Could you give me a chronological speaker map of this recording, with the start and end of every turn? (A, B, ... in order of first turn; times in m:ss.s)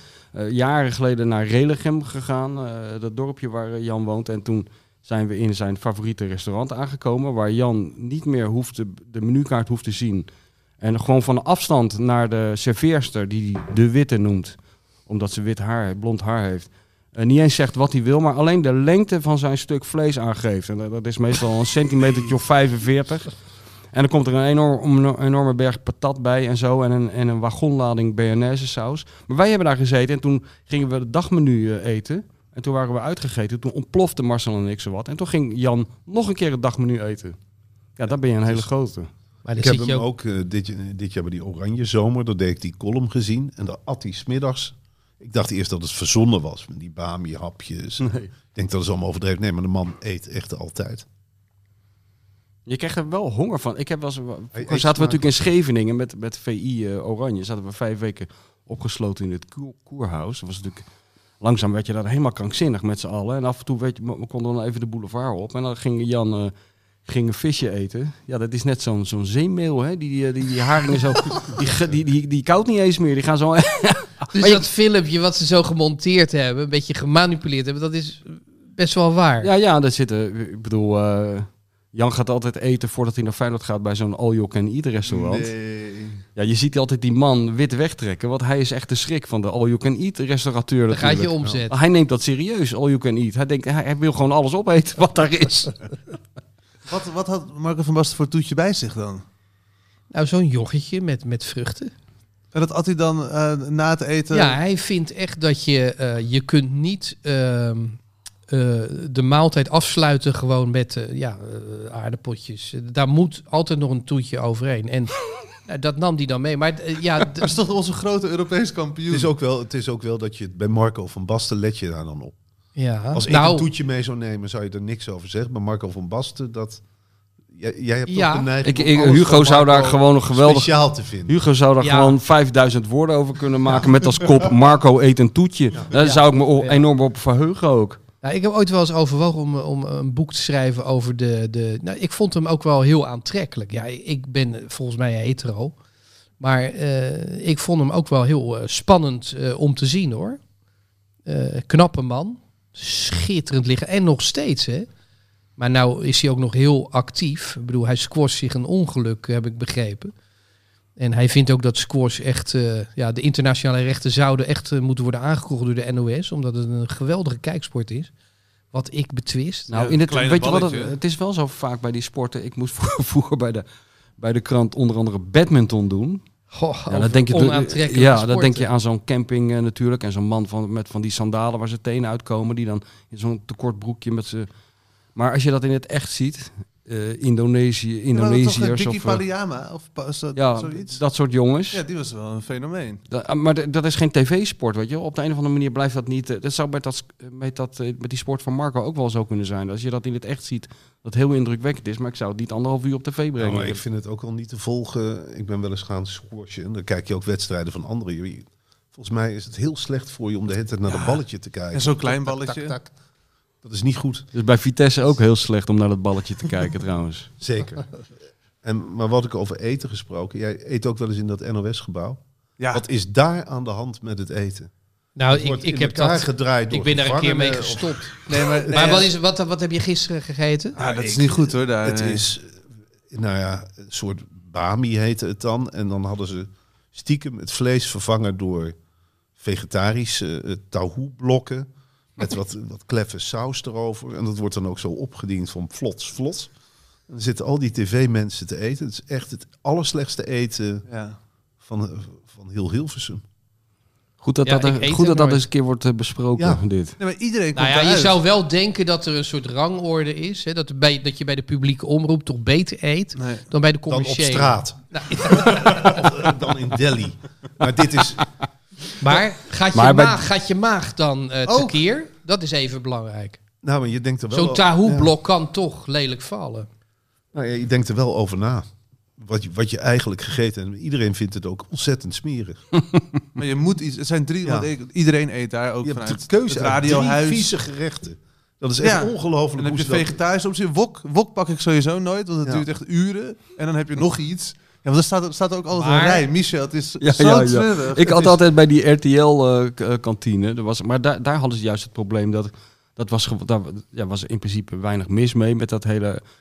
0:00.3-0:10.3 A
0:10.8-0:23.3 A
0:23.9-0:37.4 A
0:38.0-0:39.1 A
0:39.4-0:40.0 B
0:39.6-0:51.0 C
0:48.0-0:48.3 A
0:52.6-1:00.8 A
0:54.5-0:55.4 C
1:01.4-1:06.5 A
1:07.0-1:14.6 A
1:14.3-1:19.5 B
1:19.4-1:25.5 A
1:25.1-1:26.2 D
1:26.4-1:35.9 A
1:30.9-1:31.7 B
1:36.8-1:39.2 D
1:40.1-1:41.9 B
1:42.5-1:44.6 D
1:44.3-1:57.5 B
1:57.3-1:59.3 D
1:59.1-2:02.4 C
2:02.8-2:03.7 B
2:03.1-2:06.8 C
2:07.5-2:11.3 C
2:08.1-2:08.5 B
2:08.6-2:18.0 A
2:11.8-2:12.2 B
2:15.9-2:16.8 B
2:18.2-2:25.7 B
2:26.4-2:30.4 B
2:31.2-2:34.9 B
2:35.6-2:40.1 B
2:41.0-2:48.1 B
2:48.7-2:49.7 B
2:49.7-2:53.6 A
2:49.7-2:51.0 D
2:54.2-2:56.2 A
2:56.5-2:58.7 B
2:56.9-3:04.5 A
3:05.1-3:09.2 A
3:08.1-3:11.0 D
3:10.3-3:11.8 A
3:11.7-3:13.0 D
3:13.1-3:23.8 A
3:23.4-3:32.9 C
3:30.9-3:31.2 D
3:31.7-3:32.7 D
3:33.6-3:34.3 C
3:34.3-3:37.3 A
3:37.4-3:37.8 C
3:38.6-3:42.2 C
3:42.7-3:44.7 C
3:45.2-3:50.8 B
3:45.3-3:48.7 C
3:48.3-3:49.1 D
3:50.8-3:58.8 C
3:50.8-3:52.2 D
3:59.4-4:06.5 C
4:07.1-4:10.8 C
4:10.9-4:11.2 D
4:11.6-4:13.2 C
4:14.2-4:16.9 A
4:14.4-4:15.4 B
4:16.4-4:16.6 C
4:17.0-4:18.2 D
4:17.5-4:26.0 B
4:23.2-4:23.4 D
4:23.9-4:28.2 C
4:29.0-4:33.4 B
4:29.7-4:30.3 A
4:31.4-4:31.8 D
4:33.6-4:35.1 C
4:34.3-4:36.7 B
4:37.3-4:38.6 C
4:39.2-4:42.6 C
4:43.4-4:47.5 D
4:44.4-4:44.7 C
4:45.8-4:50.2 C
4:48.8-4:58.3 D
4:55.7-4:56.2 B
4:57.0-5:06.2 A